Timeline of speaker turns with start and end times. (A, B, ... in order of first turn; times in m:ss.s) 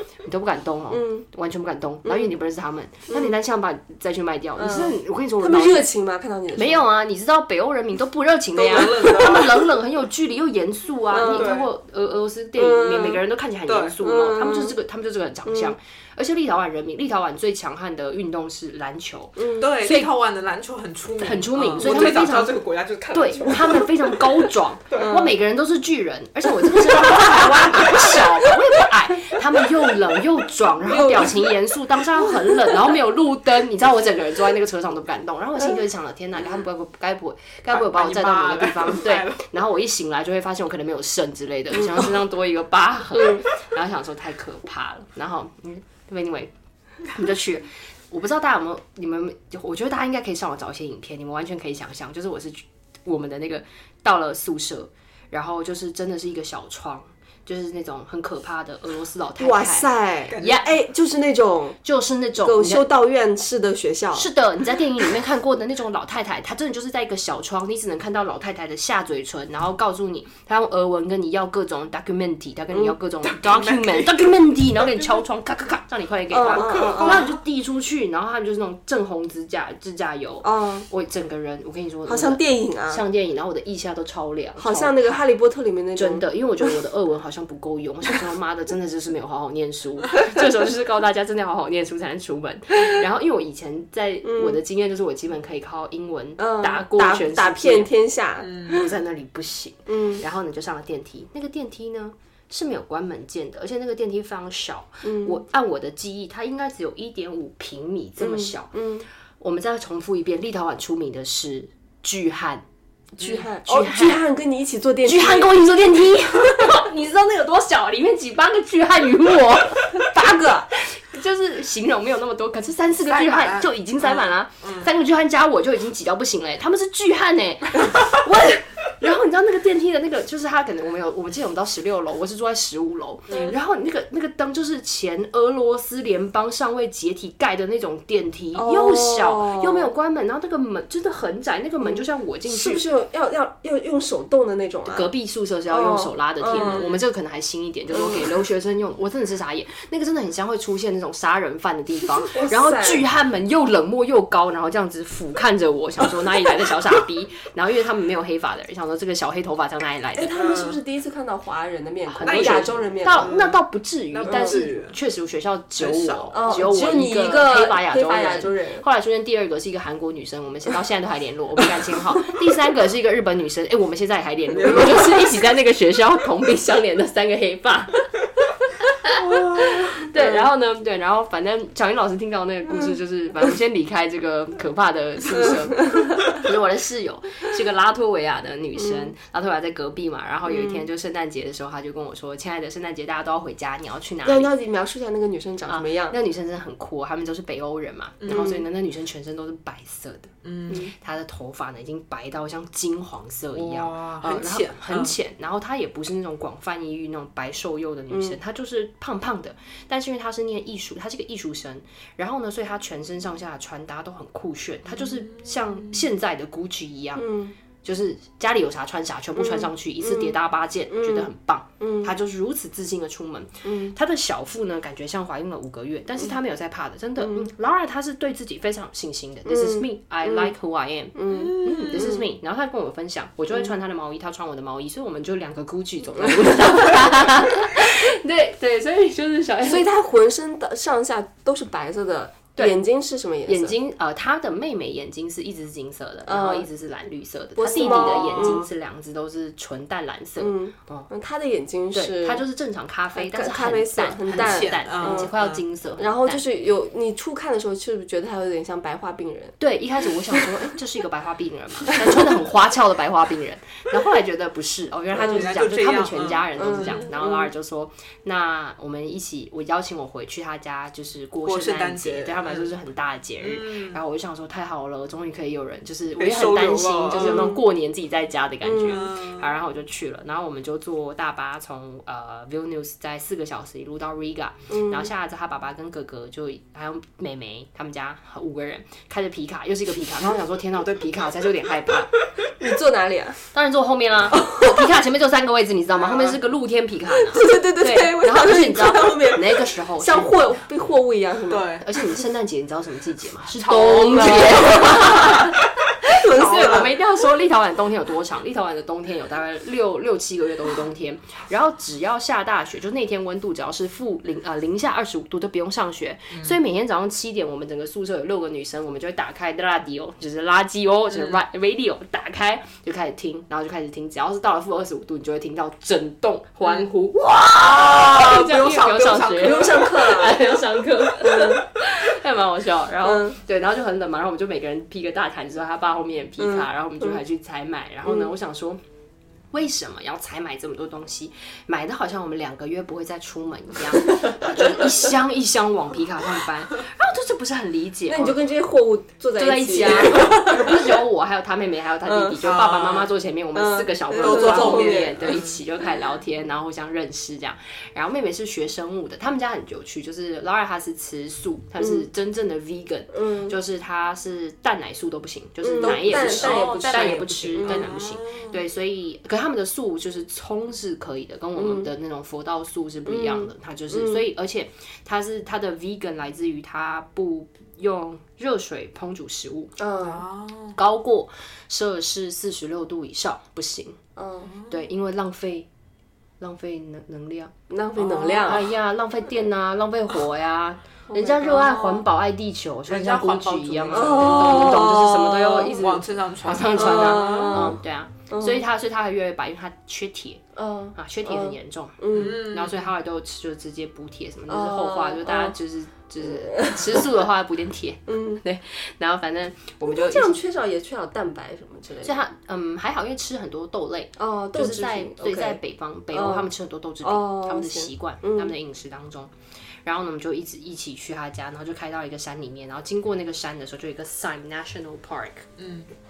0:00.2-0:05.9 A
0:00.9-0:01.2 B
0:02.0-0:02.3 B
0:03.1-0:03.3 B
0:04.6-0:06.8 B
0:06.5-0:20.1 A
0:08.6-0:09.7 C
0:11.1-0:11.5 B
0:11.2-0:11.7 C
0:12.6-0:13.2 B
0:13.7-0:13.9 C
0:14.0-0:14.8 B
0:15.4-0:15.8 B
0:19.4-0:19.7 B
0:19.6-0:24.3 C
0:21.2-0:22.6 A
0:21.8-0:22.1 B
0:23.1-0:46.5 A
0:24.9-0:25.3 B
0:30.9-0:31.3 B
0:37.7-0:39.4 C
0:47.1-1:00.7 A
0:59.4-1:01.8 B
1:01.8-1:02.9 A
1:02.4-1:04.3 B
1:04.1-1:25.2 A
1:13.3-1:14.3 C
1:16.3-1:17.3 B
1:16.5-1:17.2 C
1:20.4-1:20.9 B
1:22.0-1:23.0 B
1:24.6-1:26.7 B
1:25.9-1:37.9 A
1:34.2-1:34.6 B
1:36.4-1:38.9 B
1:38.4-1:38.8 C
1:38.7-1:48.7 A
1:39.9-1:40.2 B
1:45.0-1:45.4 B
1:48.2-1:49.1 B
1:49.4-1:52.6 A
1:53.2-1:56.8 B
1:53.2-1:53.5 C
1:53.3-1:54.2 A
1:55.0-2:22.8 A
2:00.0-2:00.7 B
2:03.1-2:04.9 C
2:18.5-2:19.9 B
2:21.8-2:25.1 B
2:24.9-2:40.4 A
2:25.7-2:26.8 B
2:26.5-2:26.9 C
2:27.9-2:28.2 B
2:32.2-2:33.0 B
2:40.1-2:43.3 B
2:40.3-2:40.8 C
2:42.1-2:58.1 A
2:42.2-2:43.6 C
2:44.1-2:45.0 C
2:44.3-2:44.6 B
2:45.8-2:46.6 C
2:46.3-2:48.8 B
2:54.5-2:55.4 C
2:54.7-2:55.0 B
2:58.9-3:14.5 A
2:59.2-2:59.9 C
3:05.3-3:06.4 B
3:08.8-3:09.1 B
3:10.5-3:10.9 B
3:14.2-3:16.2 B
3:15.7-3:37.3 A
3:18.2-3:18.5 C
3:18.2-3:18.6 B
3:20.4-3:20.8 C
3:23.5-3:25.1 C
3:28.1-3:28.4 B
3:35.0-3:36.0 C
3:37.2-3:37.5 B
3:37.8-3:59.9 A
3:39.4-3:40.4 B
3:40.9-3:42.1 B
3:43.6-3:43.9 B
3:47.2-3:47.5 B
3:49.4-3:50.5 B
3:51.1-3:52.2 B
3:51.3-3:52.2 C
3:56.2-3:57.0 B
3:59.6-4:03.8 B
4:03.5-4:11.1 A
4:06.2-4:06.7 B
4:07.6-4:08.6 B
4:07.8-4:08.6 C
4:10.4-4:12.4 B
4:11.9-4:16.4 A
4:13.1-4:15.3 B
4:14.3-4:15.6 C
4:16.0-4:19.6 B
4:19.6-4:52.1 A
4:20.3-4:20.7 B
4:25.1-4:27.1 C
4:25.2-4:25.4 B
4:26.6-4:27.5 B
4:31.4-4:32.7 C
4:33.4-4:34.0 C
4:36.2-4:37.5 C
4:37.1-4:37.6 B
4:38.6-4:39.0 B
4:38.8-4:39.5 C
4:44.7-4:45.1 B
4:52.6-4:53.4 B
4:53.5-5:00.4 A
4:54.3-4:54.8 B
4:57.2-5:01.8 B
5:01.5-5:01.8 C
5:01.8-5:38.8 A
5:03.6-5:05.4 C
5:03.7-5:05.5 B
5:06.0-5:06.9 B
5:06.4-5:06.9 C
5:27.6-5:29.9 C
5:29.4-5:30.4 B
5:31.2-5:31.7 B
5:33.0-5:33.4 B
5:36.4-5:37.2 B
5:39.5-5:48.4 A
5:48.1-5:50.8 B
5:49.4-6:19.7 A
5:52.0-5:52.4 B
5:52.4-5:53.1 C
5:53.5-5:55.4 B
5:54.1-5:55.6 C
6:01.8-6:02.0 B
6:03.1-6:03.6 B
6:05.6-6:07.9 B
6:05.9-6:08.6 C
6:11.6-6:11.9 B
6:13.0-6:14.2 B
6:19.8-6:20.2 B
6:20.0-6:20.8 C
6:20.7-6:24.0 A
6:24.2-6:24.5 B
6:24.4-6:24.8 C
6:24.7-6:25.7 A
6:26.4-6:27.5 A
6:27.7-6:28.7 B
6:28.3-6:40.4 A
6:31.1-6:32.0 B
6:32.9-6:37.7 C
6:33.9-6:36.0 B
6:36.7-6:37.8 B
6:38.3-6:38.6 B
6:40.5-6:42.4 B
6:41.0-6:50.4 A
6:42.1-6:42.9 C
6:44.5-6:45.6 B
6:46.2-6:47.1 B
6:48.1-6:48.4 B
6:49.8-6:52.1 B
6:52.0-6:59.3 A
6:54.2-6:55.6 B
6:56.1-6:56.5 B
6:57.0-6:58.5 B
6:59.8-7:05.5 A
7:05.6-7:05.9 C